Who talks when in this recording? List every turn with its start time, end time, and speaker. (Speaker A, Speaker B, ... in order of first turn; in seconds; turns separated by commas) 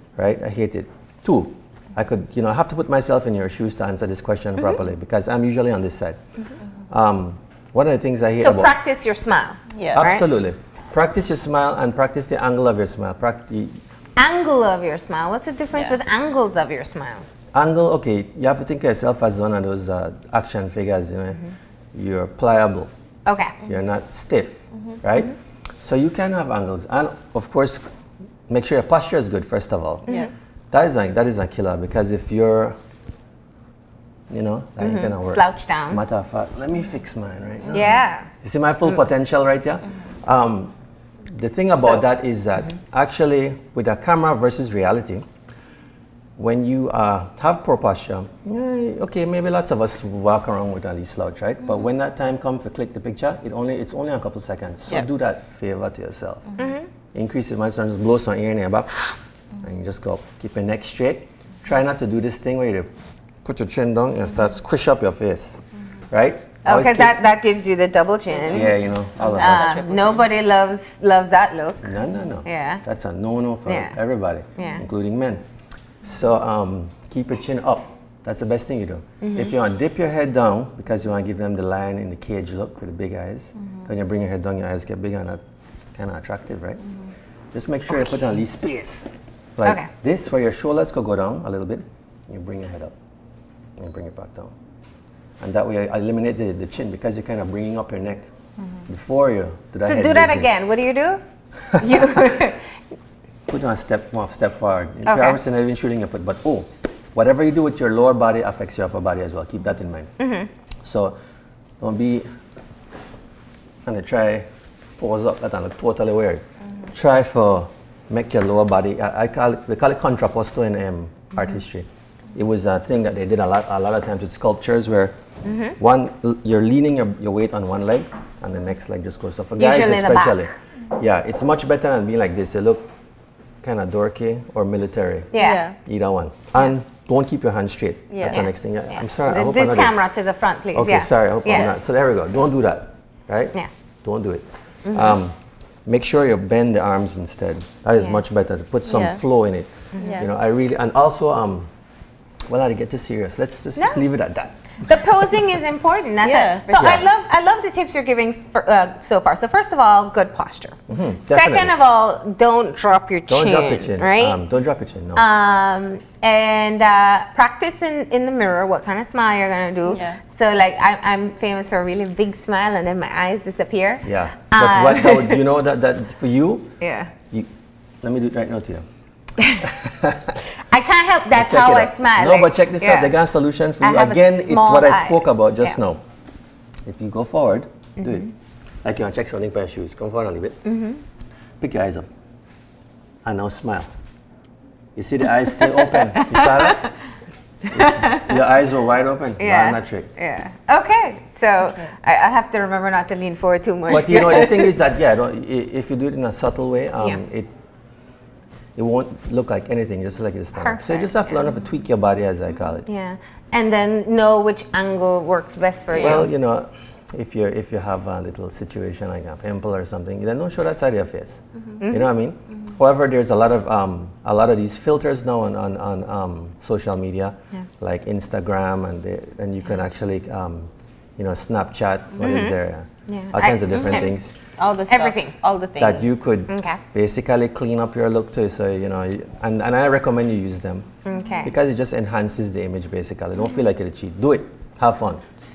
Speaker A: 0.2-6.2, Speaker A: 6.9-8.7, Speaker B: 8.4-10.2, Speaker C: 9.7-10.0, Speaker A: 9.9-13.8, Speaker B: 14.2-17.2, Speaker C: 15.7-16.0, Speaker A: 17.5-21.4, Speaker A: 21.9-22.9, Speaker B: 23.2-23.6, Speaker A: 23.6-27.8, Speaker A: 28.5-30.1, Speaker A: 30.7-32.8, Speaker A: 34.3-40.7, Speaker B: 34.8-36.0, Speaker B: 37.7-38.3, Speaker A: 41.3-45.2, Speaker B: 41.8-42.0, Speaker A: 46.4-56.5, Speaker B: 56.6-56.9, Speaker A: 57.1-62.9, Speaker A: 63.4-67.2, Speaker B: 66.6-72.8, Speaker C: 68.4-70.3, Speaker A: 68.5-69.8, Speaker A: 71.8-75.4, Speaker B: 73.7-74.0, Speaker B: 74.5-74.8, Speaker A: 76.0-85.4, Speaker B: 79.2-79.5, Speaker A: 85.9-86.8, Speaker A: 87.5-93.0, Speaker B: 89.6-89.9, Speaker A: 93.8-94.5, Speaker A: 95.4-98.3, Speaker A: 98.9-100.5, Speaker B: 99.9-101.2, Speaker A: 101.7-102.4, Speaker B: 101.7-102.7, Speaker A: 103.5-110.1, Speaker B: 105.0-105.4, Speaker B: 110.2-110.5, Speaker A: 110.8-111.1, Speaker A: 111.8-112.3, Speaker A: 113.8-125.2, Speaker B: 125.4-125.7, Speaker A: 125.8-132.9, Speaker B: 129.6-130.5, Speaker A: 133.6-139.9, Speaker B: 135.3-135.6, Speaker C: 135.3-135.8, Speaker C: 138.1-138.4, Speaker B: 138.2-141.7, Speaker A: 140.7-151.7, Speaker B: 144.8-145.2, Speaker C: 148.9-149.2, Speaker C: 150.0-150.3, Speaker A: 152.5-154.6, Speaker B: 154.8-164.4, Speaker C: 156.2-156.9, Speaker A: 156.7-157.0, Speaker A: 160.9-161.7, Speaker A: 163.3-165.2, Speaker B: 165.1-175.4, Speaker C: 169.9-170.2, Speaker A: 174.0-176.8, Speaker B: 176.8-177.1, Speaker A: 178.0-178.8, Speaker A: 179.5-180.4, Speaker B: 180.6-183.1, Speaker A: 181.3-186.0, Speaker B: 183.8-185.8, Speaker A: 186.8-188.3, Speaker B: 188.0-188.3, Speaker A: 188.8-190.6, Speaker B: 190.6-191.0, Speaker A: 191.6-192.1, Speaker A: 193.2-193.9, Speaker A: 194.9-196.9, Speaker B: 195.9-196.9, Speaker B: 197.7-198.3, Speaker A: 197.7-200.1, Speaker B: 199.4-204.7, Speaker C: 201.6-201.9, Speaker A: 203.9-207.5, Speaker A: 208.8-212.9, Speaker B: 210.6-211.2, Speaker B: 212.8-216.3, Speaker C: 215.9-216.2, Speaker A: 216.0-234.3, Speaker B: 221.8-222.1, Speaker B: 232.2-232.5, Speaker B: 233.1-234.1, Speaker C: 233.8-236.1, Speaker B: 234.9-235.3, Speaker A: 235.8-240.9, Speaker B: 236.5-236.8, Speaker B: 241.0-241.5, Speaker A: 241.4-245.2